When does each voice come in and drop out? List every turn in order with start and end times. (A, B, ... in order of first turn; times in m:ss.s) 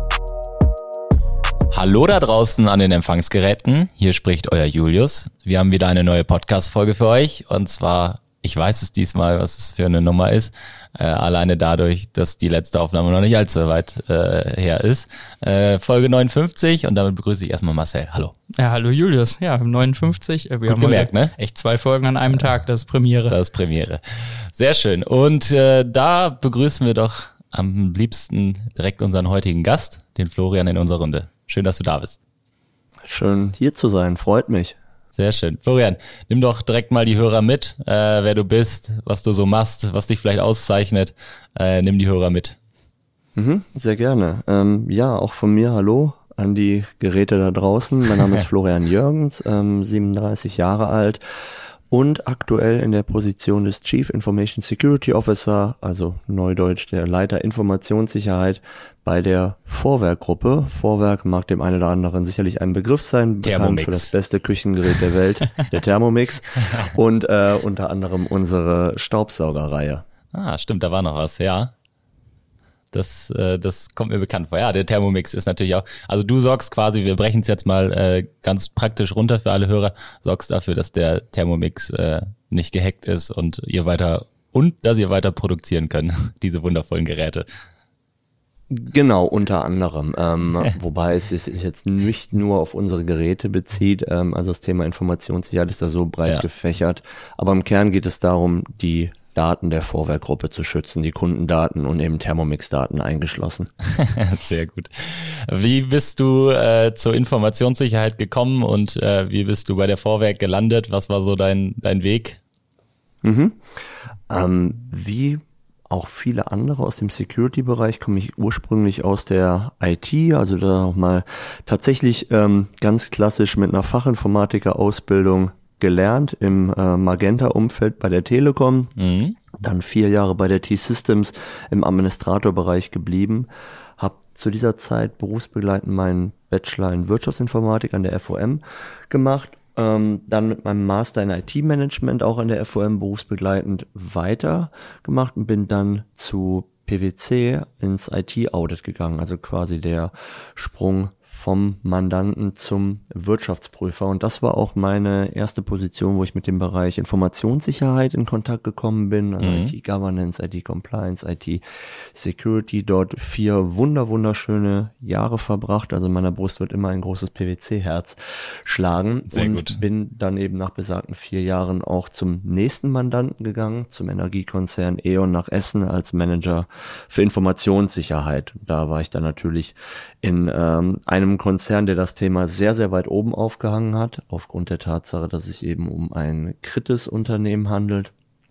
0:01.7-0:18.3 A
0:18.6-0:23.4 B
0:20.6-0:21.3 A
0:23.3-0:32.2 A
0:33.1-0:34.8 C
0:35.1-0:42.6 A
0:43.4-0:51.2 C
0:51.9-1:10.0 C
1:03.4-1:04.1 A
1:10.3-1:11.7 A
1:12.9-1:27.5 A
1:28.7-1:43.7 C
1:43.9-1:52.4 A
1:53.2-1:53.6 C
1:54.3-2:08.9 C
2:09.0-2:09.4 A
2:09.6-3:08.1 C
2:39.4-2:39.7 A
2:49.3-2:49.8 A